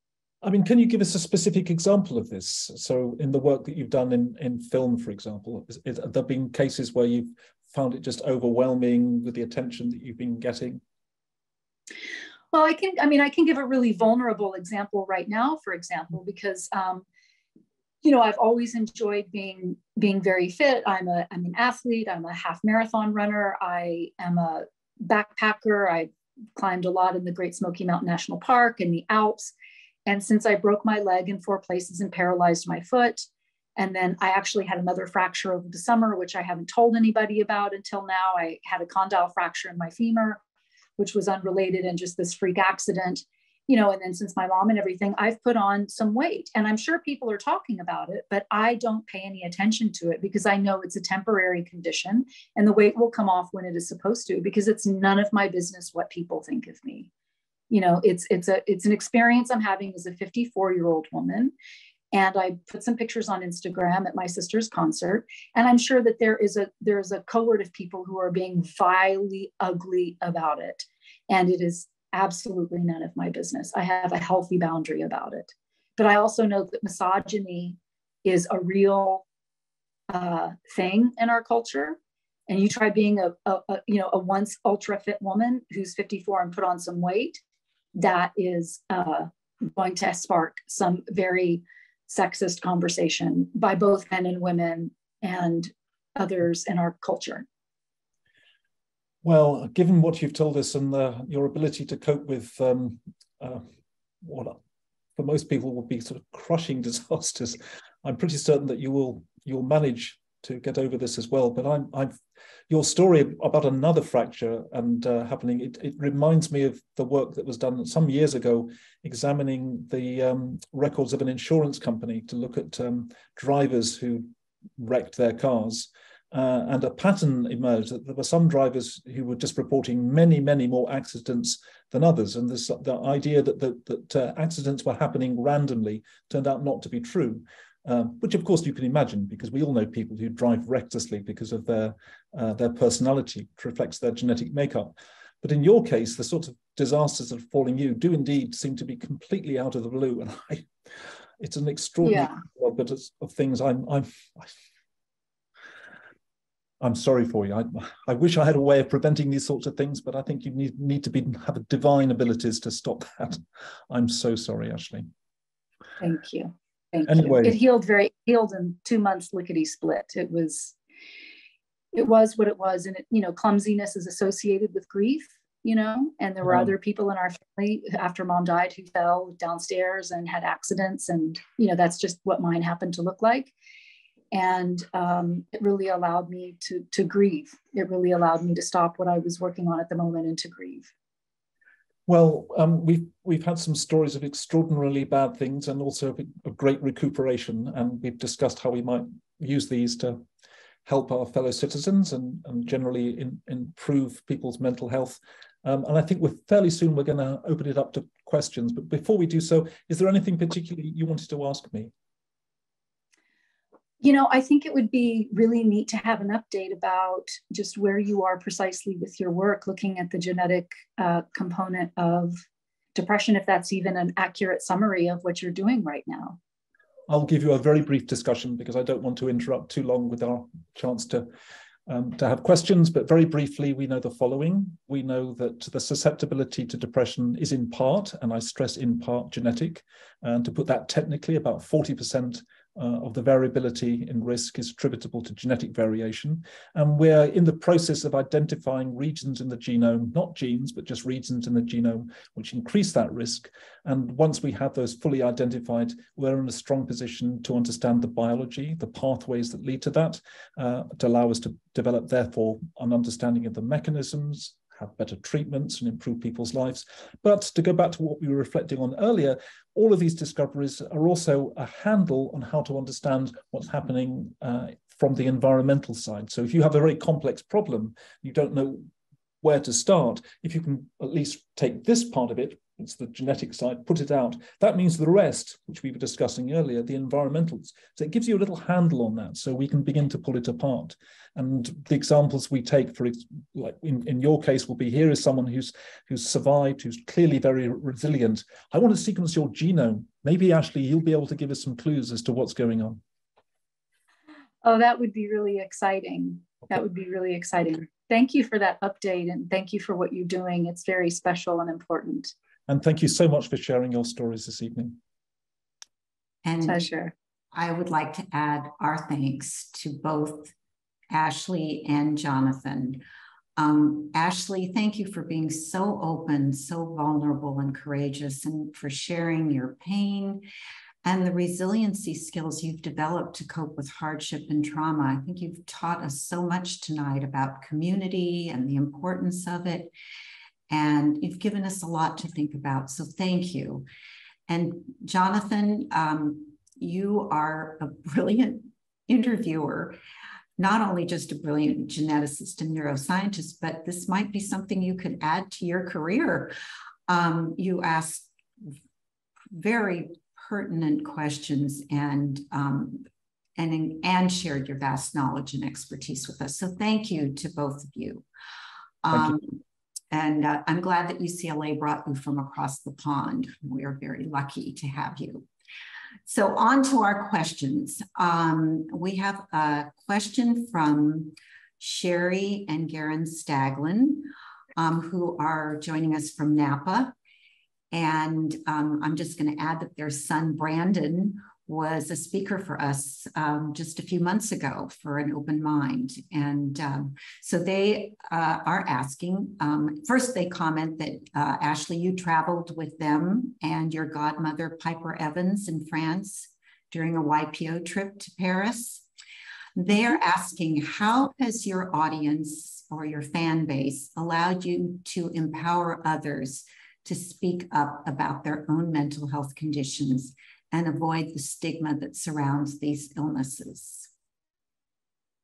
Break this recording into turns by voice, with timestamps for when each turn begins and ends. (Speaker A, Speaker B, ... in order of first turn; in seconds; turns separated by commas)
Speaker A: 0.4-10.8, Speaker B: 12.5-17.1, Speaker B: 18.0-29.5, Speaker B: 30.1-40.4, Speaker B: 41.0-57.1, Speaker B: 57.7-61.5, Speaker B: 62.1-79.2, Speaker B: 80.1-87.4, Speaker B: 88.0-97.5, Speaker A: 99.2-103.7, Speaker A: 104.2-104.6, Speaker A: 105.2-112.2, Speaker A: 112.7-150.7, Speaker A: 151.4-154.5, Speaker B: 152.0-152.4, Speaker A: 156.8-165.1, Speaker B: 166.0-170.7, Speaker A: 167.1-167.6, Speaker B: 171.9-183.5, Speaker B: 184.3-190.9, Speaker A: 192.1-200.2, Speaker A: 200.8-211.9, Speaker B: 214.0-222.4, Speaker B: 222.9-226.4, Speaker A: 227.1-231.3, Speaker A: 231.9-278.9, Speaker A: 279.4-303.0, Speaker B: 304.6-312.3, Speaker A: 312.7-315.0, Speaker C: 316.4-316.9, Speaker B: 316.6-317.1, Speaker C: 317.5-320.5, Speaker C: 321.1-323.0, Speaker C: 323.6-330.4, Speaker C: 331.0-339.9, Speaker C: 340.7-343.9, Speaker C: 344.5-350.0, Speaker C: 350.6-356.5, Speaker C: 357.1-358.8, Speaker C: 359.5-368.2, Speaker C: 369.0-375.5, Speaker C: 376.2-387.1, Speaker C: 387.9-409.1, Speaker C: 409.8-424.1